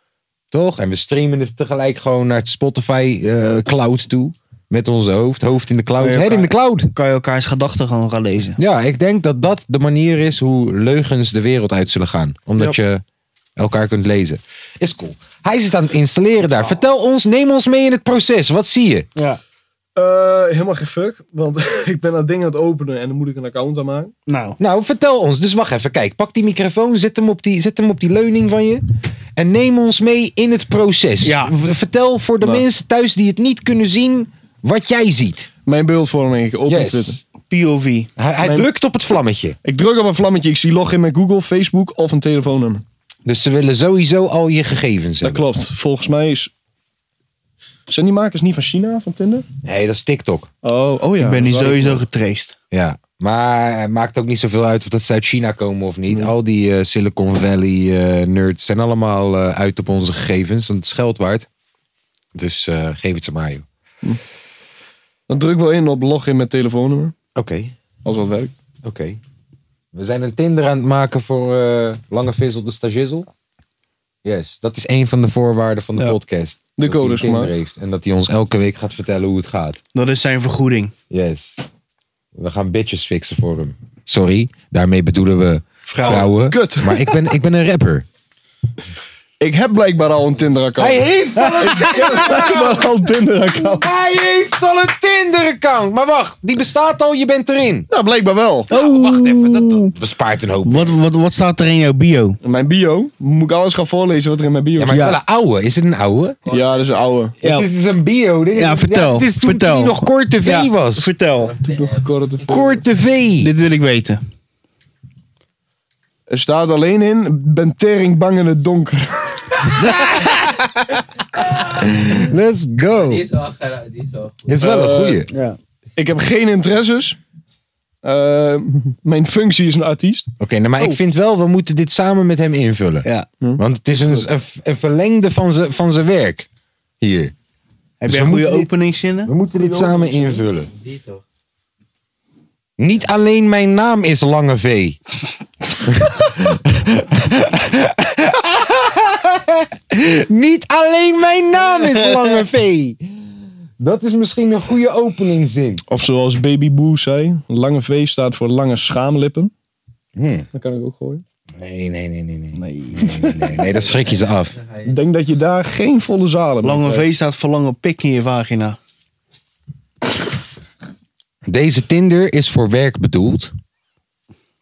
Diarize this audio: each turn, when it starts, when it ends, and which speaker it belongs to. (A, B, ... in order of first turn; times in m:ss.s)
0:00.5-0:06.9 A
0:06.0-0:08.6 B
0:08.6-0:13.0 A
0:13.6-0:19.1 A
0:20.0-0:24.1 C
0:24.3-0:24.6 B
0:24.6-0:35.5 A
0:31.2-0:31.5 B
0:35.7-0:37.2 C
0:36.7-0:37.2 A
0:37.5-0:38.1 B
0:38.2-0:39.6 A
0:39.6-0:42.8 C
0:43.2-0:45.5 A
0:45.2-0:46.5 C
0:47.9-0:49.4 C
0:49.6-0:50.5 A
0:50.6-0:52.0 C
0:51.2-0:52.5 B
0:52.7-1:01.5 A
1:02.4-1:03.7 A
1:05.3-1:07.1 C
1:07.4-1:07.7 A
1:08.0-1:08.5 C
1:08.8-1:09.2 A
1:09.9-1:13.3 A
1:14.2-1:19.8 A
1:16.8-1:17.5 C
1:19.9-1:20.9 B
1:21.1-1:21.6 A
1:22.4-1:28.0 A
1:25.9-1:26.3 B
1:26.0-1:27.3 C
1:29.4-1:33.9 C
1:30.8-1:32.9 A
1:31.7-1:32.6 B
1:33.6-1:37.9 A
1:37.9-1:38.7 C
1:38.7-1:41.0 A
1:38.7-1:39.9 B
1:40.6-1:42.4 B
1:42.4-1:45.0 C
1:44.8-1:46.4 A
1:44.9-1:45.2 B
1:46.4-1:47.3 D
1:46.5-1:47.4 C
1:47.4-1:47.7 B
1:47.4-1:51.1 A
1:48.5-1:51.5 B
1:51.4-1:52.4 D
1:51.7-1:52.8 C
1:52.4-1:53.5 A
1:53.4-1:54.2 B
1:56.3-1:59.7 C
1:59.8-2:01.0 A
2:01.8-2:03.3 A
2:02.9-2:04.6 D
2:04.5-2:05.3 A
2:04.6-2:05.2 C
2:05.3-2:05.6 B
2:06.0-2:07.2 C
2:08.0-2:10.3 C
2:10.4-2:16.5 A
2:13.4-2:14.2 C
2:17.0-2:17.3 A
2:18.0-2:19.3 B
2:18.1-2:18.7 A
2:19.3-2:20.7 A
2:19.7-2:20.0 C
2:20.6-2:21.2 D
2:22.8-2:25.0 A
2:25.8-2:33.0 A
2:33.8-2:35.8 A
2:35.9-2:39.5 C
2:40.2-2:40.5 A
2:40.5-2:41.2 C
2:41.6-2:44.6 A
2:42.5-2:43.5 B
2:43.7-2:45.0 D
2:44.8-2:47.1 C
2:46.6-2:48.8 B
2:51.4-2:53.5 A